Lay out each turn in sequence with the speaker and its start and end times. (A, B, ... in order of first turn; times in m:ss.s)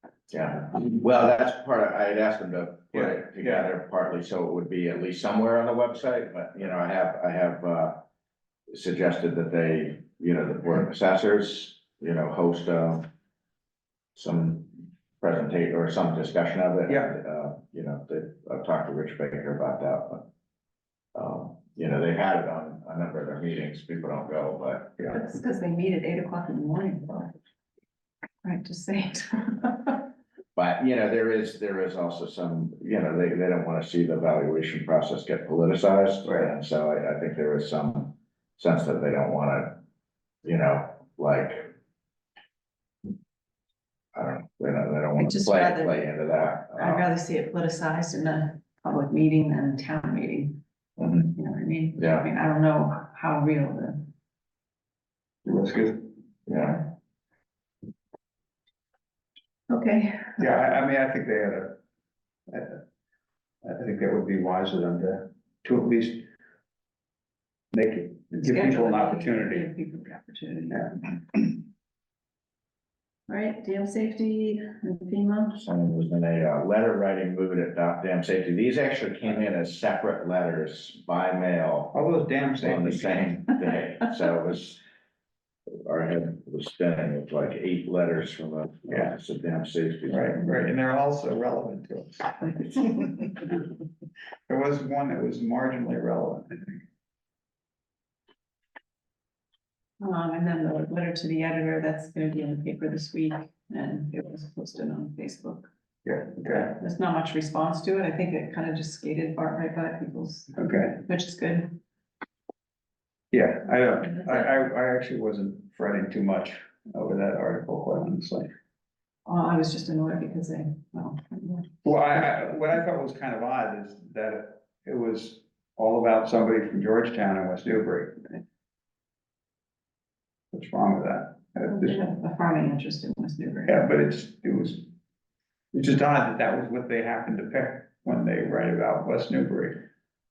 0:00.3-0:08.0 A
0:02.9-0:03.7 B
0:08.7-0:13.1 A
0:14.2-0:20.2 A
0:16.9-0:17.1 B
0:21.1-0:25.0 A
0:25.1-0:27.3 C
0:28.4-0:30.1 C
0:30.6-0:39.8 A
0:36.2-0:36.5 B
0:40.4-0:41.7 A
0:44.1-0:47.0 A
0:45.2-0:46.0 C
0:46.8-0:50.5 C
0:51.0-0:51.3 A
0:51.2-0:54.1 C
0:52.0-0:52.2 A
0:55.4-0:56.1 B
0:56.5-0:56.9 A
0:59.7-1:00.4 C
1:00.4-1:01.8 B
1:02.5-1:02.8 B
1:03.6-1:06.3 B
1:07.7-1:09.7 B
1:08.4-1:11.1 C
1:13.3-1:15.6 C
1:15.6-1:22.0 A
1:21.9-1:23.4 B
1:22.6-1:24.8 A
1:25.8-1:30.4 A
1:28.9-1:29.2 B
1:30.1-1:33.7 B
1:34.5-1:36.8 B
1:40.0-1:45.7 C
1:46.0-1:46.7 B
1:46.4-1:51.8 C
1:50.6-1:50.9 B
1:53.3-1:58.5 B
1:59.2-2:01.9 C
2:01.8-2:08.3 B
2:10.5-2:12.0 B
2:11.7-2:13.8 C
2:13.7-2:14.9 B
2:15.7-2:19.9 B